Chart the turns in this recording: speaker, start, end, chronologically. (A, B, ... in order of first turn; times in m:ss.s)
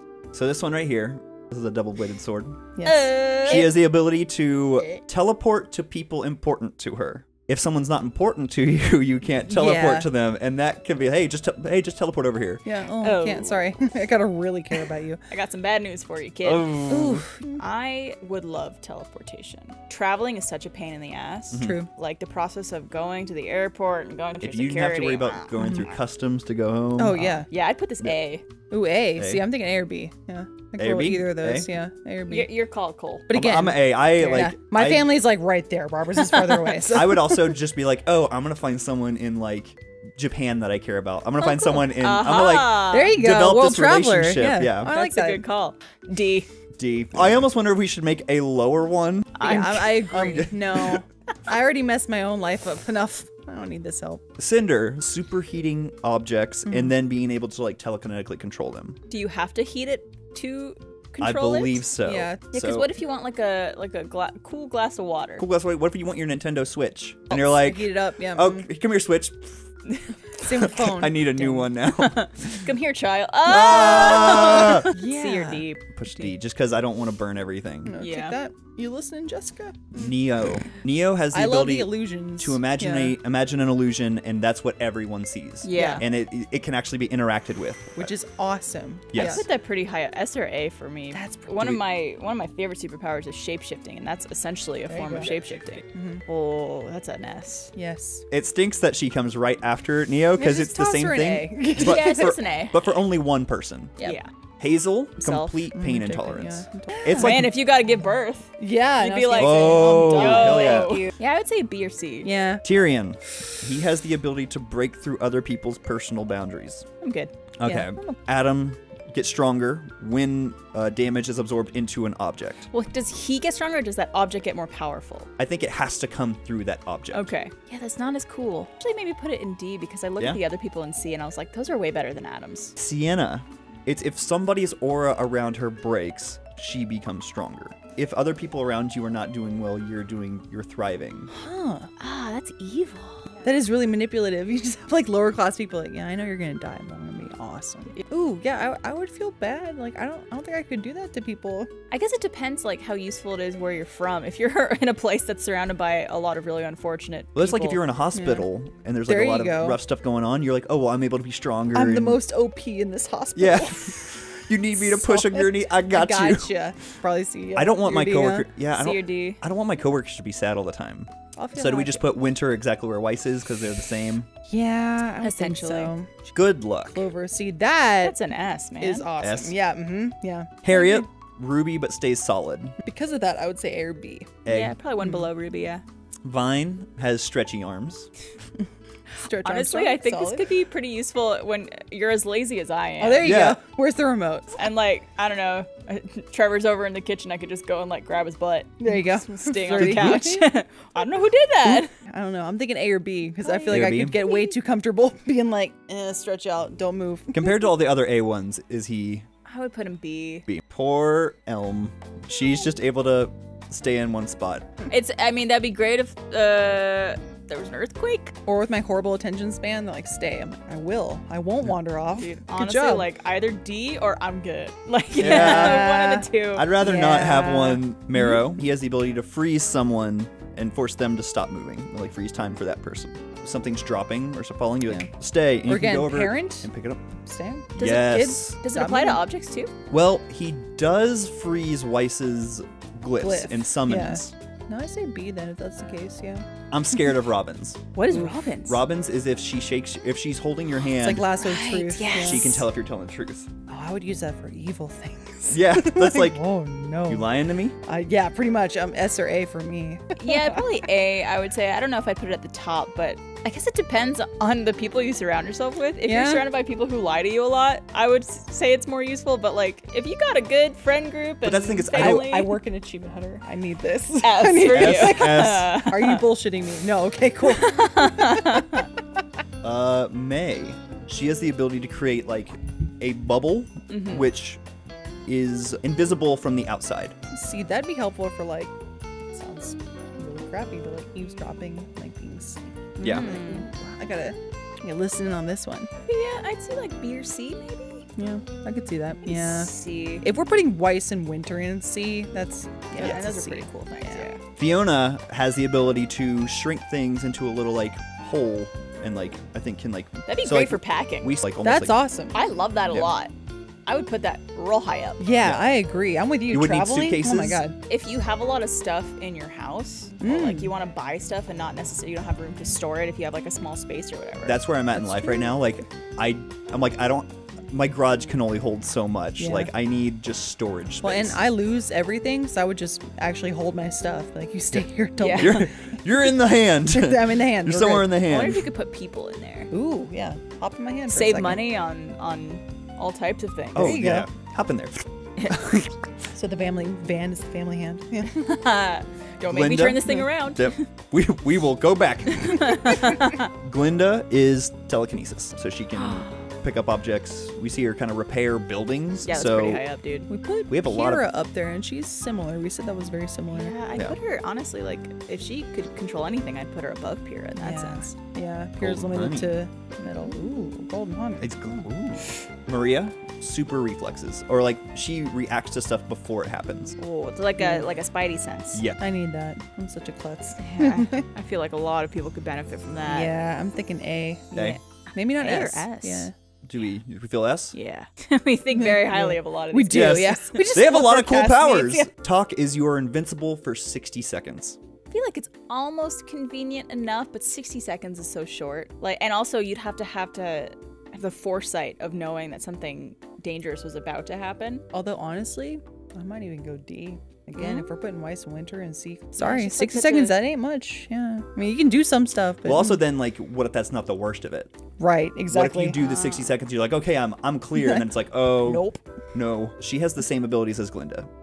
0:00.3-0:02.6 A
0:02.8-0:03.7 B
0:02.8-0:03.8 C
0:03.4-0:12.6 A
0:09.4-0:10.1 B
0:12.6-0:15.2 B
0:13.0-0:13.6 C
0:15.3-0:17.0 C
0:16.4-0:17.3 A
0:16.9-0:17.6 B
0:17.6-0:25.8 C
0:21.5-0:21.8 A
0:21.6-0:21.9 B
0:24.4-0:27.5 A
0:25.6-0:25.8 B
0:27.0-0:27.5 B
0:27.5-0:28.4 C
0:28.7-0:32.5 B
0:29.2-0:29.4 A
0:30.8-0:31.7 A
0:32.3-0:33.3 C
0:33.3-0:37.6 B
0:33.3-0:35.1 A
0:36.3-0:36.8 C
0:36.8-0:44.9 A
0:41.4-0:43.2 C
0:42.9-0:45.4 B
0:44.8-0:46.5 C
0:46.8-0:49.5 A
0:49.4-0:50.6 C
0:49.4-0:54.2 B
0:50.2-0:50.5 A
0:54.4-0:59.0 A
0:56.6-0:56.9 B
0:59.1-1:01.9 C
1:01.2-1:02.9 A
1:02.0-1:02.5 B
1:02.5-1:05.4 C
1:05.4-1:09.6 A
1:07.3-1:08.7 B
1:09.9-1:10.1 C
1:10.4-1:11.7 B
1:10.4-1:12.6 A
1:11.9-1:16.3 C
1:13.4-1:14.9 A
1:14.3-1:15.7 B
1:15.9-1:18.0 A
1:17.8-1:20.6 B
1:18.0-1:18.4 C
1:19.9-1:28.1 A
1:21.3-1:23.2 B
1:25.6-1:26.0 C
1:25.7-1:26.0 B
1:28.0-1:29.4 B
1:29.1-1:29.4 A
1:29.1-1:37.7 C
1:31.1-1:31.5 B
1:34.9-1:35.3 B
1:35.9-1:36.2 B
1:37.7-1:38.3 B
1:38.3-1:44.0 A
1:40.3-1:42.4 B
1:41.8-1:42.9 C
1:44.0-1:44.3 C
1:44.6-1:47.5 A
1:45.2-1:45.5 C
1:45.7-1:47.5 B
1:47.0-1:52.3 C
1:48.6-1:51.1 B
1:49.4-1:51.0 A
1:52.2-1:52.6 B
1:52.6-1:56.8 A
1:57.0-1:57.3 C
1:57.6-2:02.7 A
1:57.6-1:58.1 B
2:02.7-2:05.3 C
2:05.4-2:07.3 A
2:07.1-2:12.7 C
2:12.8-2:21.3 A
2:21.3-2:21.9 B
2:22.0-2:23.4 C
2:23.4-2:31.7 B
2:31.9-2:37.8 C
2:37.3-2:42.2 A
2:38.1-2:38.5 B
2:39.1-2:39.8 B
2:41.7-2:44.1 B
2:43.4-2:46.5 A
2:44.7-2:48.5 B
2:47.5-2:54.3 A
2:48.7-2:49.4 C
2:51.4-2:52.0 B
2:54.5-2:56.1 B
2:55.2-2:55.9 C
2:56.3-2:57.1 A
2:56.9-2:58.2 B
2:58.0-2:59.1 C
2:58.8-3:01.0 B
2:59.2-2:59.5 A
3:00.6-3:02.7 A
3:02.8-3:04.4 B
3:04.4-3:04.8 A
3:04.5-3:05.8 C
3:05.0-3:05.3 B
3:06.2-3:08.1 A
3:09.1-3:10.5 B
3:09.2-3:13.4 C
3:13.0-3:14.6 B
3:13.2-3:13.6 A
3:14.5-3:21.9 C
3:18.8-3:20.4 B
3:19.7-3:20.3 A
3:21.6-3:27.7 B
3:23.4-3:24.6 C
3:23.7-3:24.2 A
3:27.3-3:29.2 A
3:29.4-3:30.4 C
3:30.5-3:34.7 A
3:34.9-3:38.3 C
3:38.4-3:43.1 B
3:42.2-3:46.7 C
3:45.1-3:45.9 A
3:45.2-3:48.4 B
3:46.5-3:57.0 A
3:55.6-3:59.2 B
3:57.7-3:58.6 A
3:57.8-3:59.7 C
3:59.9-4:04.3 A
4:03.2-4:06.4 B
4:06.7-4:11.3 A
4:07.9-4:08.8 C
4:10.8-4:12.6 B
4:11.3-4:12.6 C
4:12.1-4:13.5 A
4:13.7-4:20.8 B
4:15.5-4:16.4 A
4:17.1-4:17.8 A
4:20.1-4:32.6 C
4:26.0-4:26.4 B
4:31.4-4:32.3 A
4:31.9-4:38.9 B
4:34.2-4:36.2 C
4:34.7-4:35.8 A
4:37.4-4:38.9 C
4:39.6-4:44.6 A
4:43.9-4:44.2 C
4:45.2-4:47.2 A
4:47.3-4:48.7 B
4:49.3-4:55.9 B
4:53.0-4:53.7 C
4:53.0-4:53.4 A
4:56.1-4:58.1 C
4:58.2-5:04.3 B
4:59.2-5:00.2 C
5:03.0-5:04.4 C
5:04.6-5:12.0 A
5:10.3-5:11.4 C
5:11.6-5:12.4 B
5:12.3-5:13.3 C
5:12.9-5:13.1 A
5:13.8-5:15.2 C
5:15.2-5:17.8 B
5:16.5-5:17.6 A
5:17.9-5:24.6 C
5:20.2-5:20.7 B
5:24.4-5:31.4 A
5:24.9-5:25.6 B
5:29.4-5:29.7 B
5:31.0-5:36.0 B
5:35.2-5:35.7 C
5:35.3-5:38.6 A
5:36.8-5:38.1 B
5:38.2-5:39.7 C
5:39.7-5:41.6 B
5:41.1-5:44.0 C
5:43.7-5:44.3 B
5:43.7-5:45.9 A
5:45.4-5:45.8 C
5:46.3-5:48.4 B
5:48.3-5:50.8 C
5:49.5-5:59.8 A
5:52.3-5:53.5 C
5:55.9-5:56.4 C
5:59.2-6:00.3 C
6:00.3-6:03.8 B
6:00.7-6:01.2 A
6:03.5-6:08.1 C
6:07.6-6:11.7 B
6:08.8-6:09.5 A
6:11.4-6:17.0 A
6:17.0-6:18.8 C
6:17.6-6:17.9 B
6:18.7-6:19.0 A
6:19.0-6:21.2 B
6:20.6-6:23.3 C
6:23.0-6:26.3 B
6:24.6-6:26.3 C
6:26.6-6:27.8 A
6:27.7-6:30.6 C
6:28.7-6:32.1 B
6:29.9-6:34.8 A
6:35.1-6:44.8 C
6:44.9-6:53.0 B
6:47.5-6:47.9 C
6:49.4-6:50.4 C
6:52.6-6:54.7 A
6:55.0-6:56.0 B
6:55.5-7:01.3 A
6:56.0-6:56.5 C
6:57.7-6:58.1 B
6:58.6-6:59.0 B